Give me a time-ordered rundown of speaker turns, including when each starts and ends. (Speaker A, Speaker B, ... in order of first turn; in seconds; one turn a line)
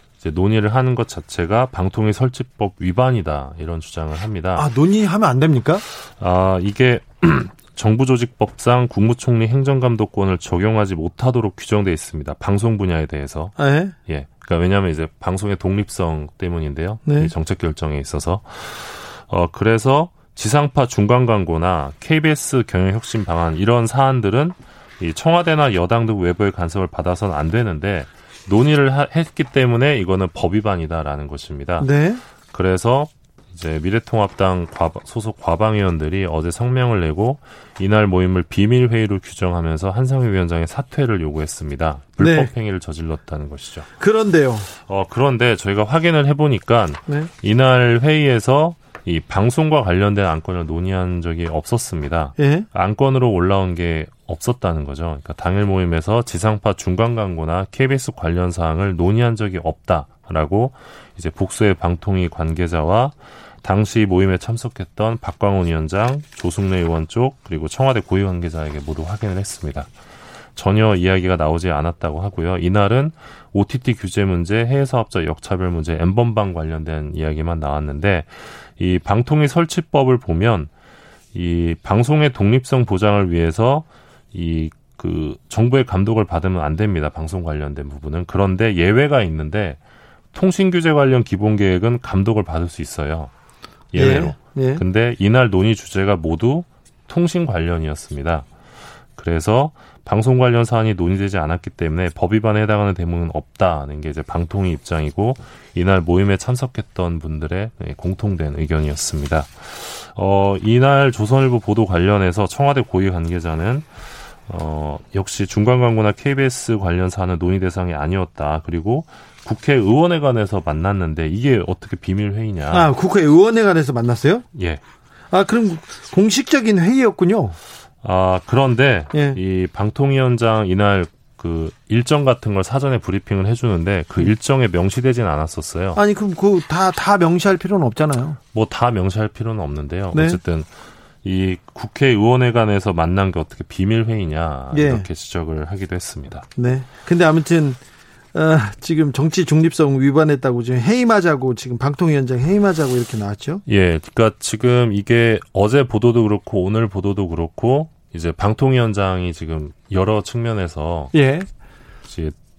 Speaker A: 0.2-4.7
Speaker B: 4.6-5.8
Speaker A: 5.9-31.9
Speaker B: 13.6-13.9
Speaker B: 17.1-17.3
Speaker B: 31.8-32.2
Speaker A: 32.5-43.9
Speaker B: 42.2-42.5
Speaker B: 44.0-44.7
Speaker A: 44.8-69.9
Speaker B: 52.4-52.7
Speaker A: 70.6-80.7
Speaker A: 81.3-89.8
Speaker A: 90.3-93.3
Speaker A: 93.9-98.5
Speaker B: 93.9-94.8
Speaker A: 99.2-122.9
Speaker B: 122.7-124.5
Speaker A: 124.5-124.8
Speaker B: 125.3-127.6
Speaker A: 128.0-136.0
Speaker B: 129.1-129.4
Speaker B: 135.9-138.4
Speaker A: 138.5-140.7
Speaker B: 140.1-140.4
Speaker A: 141.2-146.5
Speaker B: 144.7-145.1
Speaker B: 146.6-147.8
Speaker B: 148.3-153.6
Speaker A: 153.7-161.1
Speaker B: 161.1-161.5
Speaker A: 162.1-162.3